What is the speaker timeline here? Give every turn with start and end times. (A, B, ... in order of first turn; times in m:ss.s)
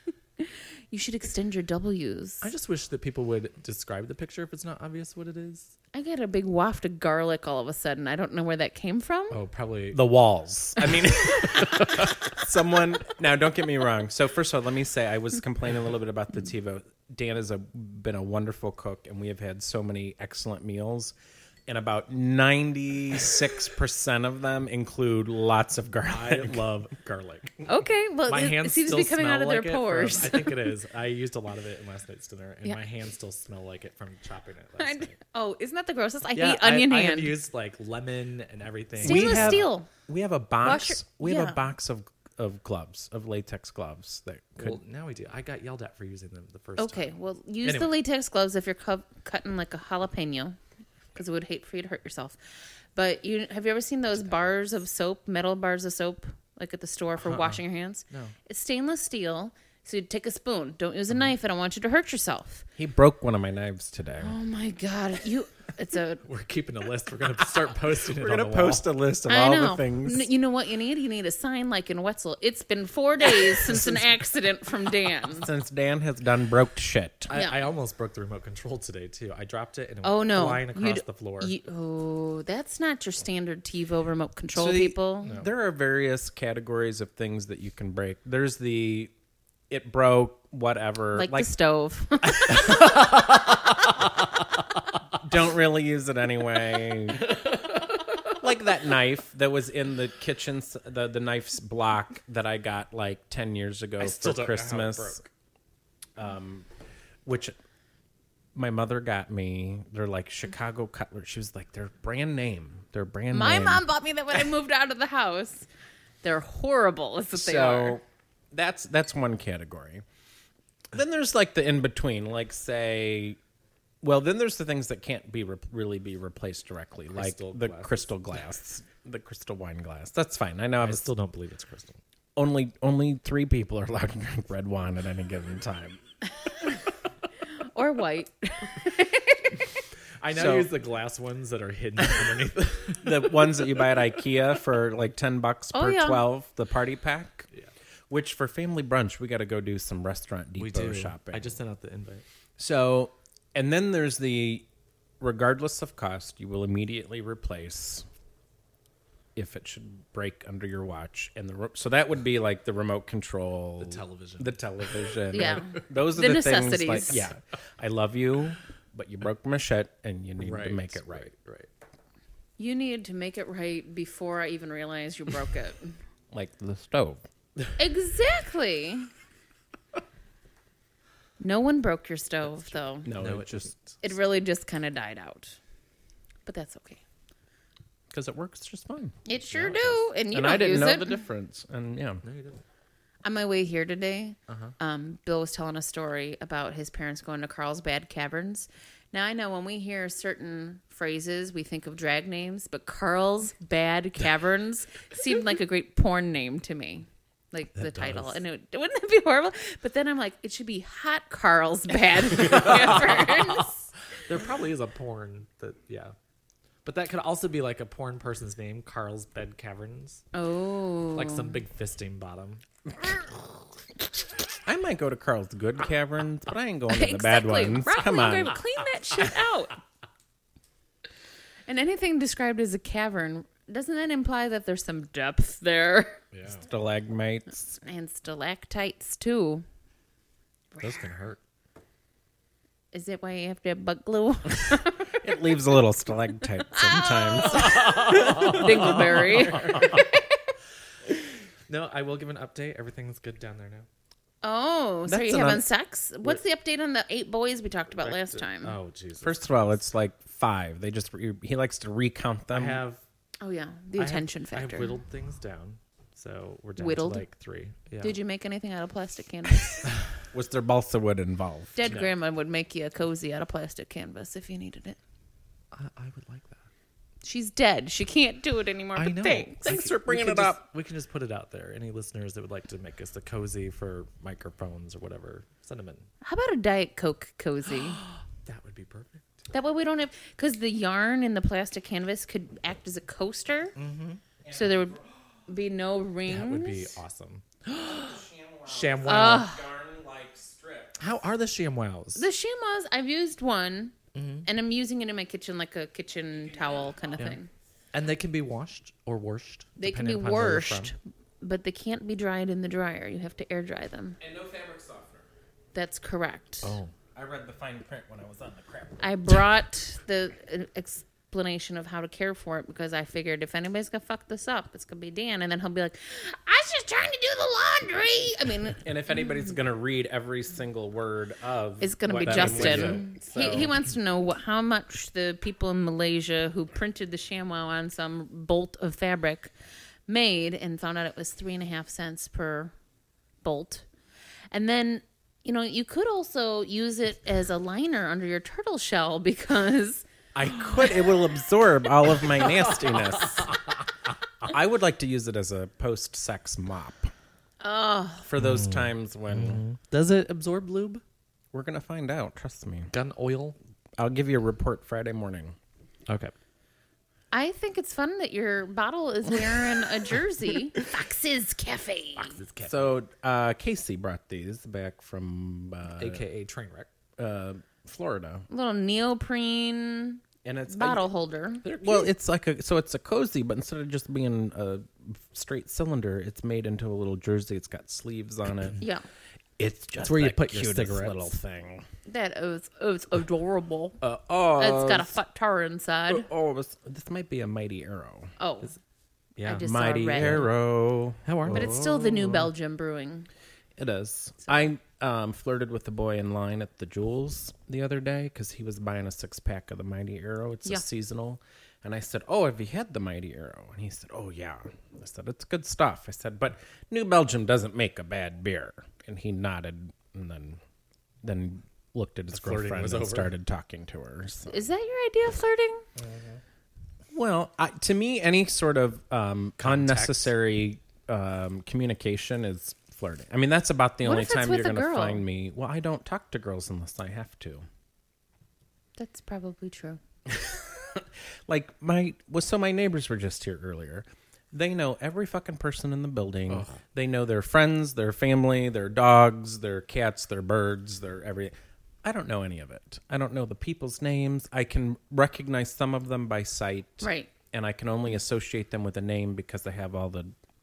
0:00.4-0:02.5 A
0:02.4-0:05.7 B
0:05.9-0:09.4 A
0:09.3-0:12.2 B
0:09.9-0:21.1 C
0:21.7-0:26.6 C
0:26.1-0:27.7 B
0:27.6-0:30.6 A
0:28.3-0:35.2 B
0:34.8-0:37.4 A
0:36.4-0:39.7 B
0:39.0-0:44.8 C
0:39.0-0:39.9 A
0:40.6-0:41.6 A
0:44.6-0:48.0 B
0:46.8-0:50.6 A
0:51.2-0:52.4 A
0:53.0-1:02.7 A
0:57.2-0:58.4 B
1:02.8-1:04.4 C
1:04.2-1:06.2 A
1:06.2-1:08.8 B
1:08.1-1:10.3 C
1:09.3-1:15.5 A
1:15.3-1:17.3 C
1:17.3-1:21.5 B
1:17.3-1:17.6 A
1:20.0-1:25.4 A
1:24.6-1:29.1 C
1:29.7-1:31.5 C
1:31.2-1:33.0 A
1:32.5-1:33.9 B
1:35.2-1:37.4 C
1:37.3-1:37.7 B
1:38.3-1:45.2 C
1:44.0-1:45.3 B
1:46.2-1:46.7 C
1:47.2-1:47.6 C
1:48.6-1:53.8 C
1:53.3-1:55.7 A
1:56.2-1:58.0 A
1:57.4-2:00.0 C
2:00.9-2:03.4 C
2:04.0-2:11.1 C
2:07.1-2:08.1 B
2:10.8-2:12.0 B
2:12.4-2:16.0 C
2:17.6-2:19.6 A
2:20.2-2:24.1 B
2:20.3-2:20.7 C
2:23.0-2:27.5 C
2:25.7-2:26.2 A
2:28.1-2:31.6 C
2:30.6-2:32.2 B
2:32.6-2:34.7 C
2:35.2-2:38.1 C
2:39.4-2:51.3 C
2:43.8-2:45.2 B
2:45.3-2:47.3 A
2:50.4-2:51.7 B
2:52.6-2:56.0 A
2:56.3-2:57.2 C
2:57.8-2:59.1 A
3:01.4-3:03.1 A
3:03.0-3:03.7 C
3:03.1-3:03.9 B
3:04.0-3:05.6 A
3:06.5-3:07.0 A
3:08.1-3:09.2 C
3:09.3-3:11.2 A
3:09.5-3:10.0 B
3:10.3-3:12.2 C
3:12.2-3:12.6 B
3:13.2-3:33.9 A
3:14.5-3:14.8 B
3:27.8-3:28.4 B
3:32.4-3:33.7 B
3:34.3-3:36.1 B
3:36.8-3:40.2 B
3:40.3-3:41.6 A
3:41.2-3:42.6 B
3:44.6-3:48.6 C
3:46.9-3:49.8 A
3:51.7-3:56.2 A
3:56.3-3:56.6 B
3:56.6-3:57.8 C
3:57.8-3:59.6 A
4:00.8-4:01.4 B
4:02.9-4:05.2 A
4:05.2-4:09.1 C
4:06.7-4:10.3 A
4:07.5-4:10.0 B
4:11.7-4:13.9 B
4:14.4-4:18.8 A
4:15.1-4:15.7 C
4:17.9-4:19.7 B
4:19.2-4:22.8 C
4:22.5-4:23.0 B
4:23.4-4:25.0 A
4:24.0-4:28.2 B
4:26.8-4:27.2 A
4:28.0-4:29.9 A
4:30.3-4:31.8 C
4:31.8-4:35.0 A
4:31.9-4:32.1 B
4:35.7-4:36.7 B
4:37.2-4:39.8 A
4:39.0-4:46.1 B
4:39.6-4:40.6 C
4:46.2-4:48.0 A
4:47.7-4:49.2 B
4:49.5-4:53.8 A
4:53.8-4:54.2 B
4:54.4-4:55.1 C
4:54.5-4:57.0 A
4:56.3-4:59.5 B
4:57.8-5:01.0 C
4:59.0-4:59.6 A
5:01.0-5:02.3 B
5:02.2-5:07.5 A
5:04.1-5:04.5 B
5:07.9-5:11.0 B
5:09.8-5:14.2 A
5:14.2-5:15.3 C
5:15.7-5:16.8 A
5:16.6-5:16.9 B
5:17.2-5:19.1 C
5:19.0-5:28.8 A
5:28.8-5:33.7 C
5:31.8-5:39.5 A
5:32.2-5:33.1 B
5:40.1-5:42.7 A
5:43.4-5:43.9 A
5:44.5-5:50.1 A
5:50.4-5:53.6 C
5:52.4-5:53.6 B
5:54.4-5:57.1 C
5:57.6-5:58.3 A
5:58.2-5:59.6 C
5:58.4-6:01.0 B
6:01.5-6:02.9 C
6:02.9-6:03.6 B
6:04.0-6:05.6 C
6:06.1-6:06.3 B
6:07.3-6:12.4 A
6:12.2-6:13.0 B
6:12.6-6:16.2 C
6:16.0-6:16.9 B
6:17.2-6:18.5 C
6:18.5-6:21.7 A
6:20.4-6:21.1 C
6:21.6-6:22.1 B
6:21.8-6:28.8 C
6:29.6-6:31.8 C
6:30.0-6:31.4 B
6:32.1-6:34.0 A
6:34.0-6:35.1 C
6:34.6-6:36.3 A
6:36.1-6:38.3 C
6:38.4-6:38.8 A
6:39.4-6:40.5 B
6:39.4-6:40.5 A
6:39.6-6:42.5 C
6:41.2-6:41.8 B
6:41.5-6:43.3 A
6:43.8-7:00.6 C
7:01.2-7:04.6 C
7:02.3-7:03.3 B
7:04.5-7:05.8 A
7:06.0-7:06.4 B
7:07.1-7:17.6 C
7:09.6-7:10.3 B
7:14.0-7:15.2 A
7:19.0-7:20.0 A
7:20.3-7:40.3 C
7:26.5-7:26.8 B
7:37.0-7:37.3 A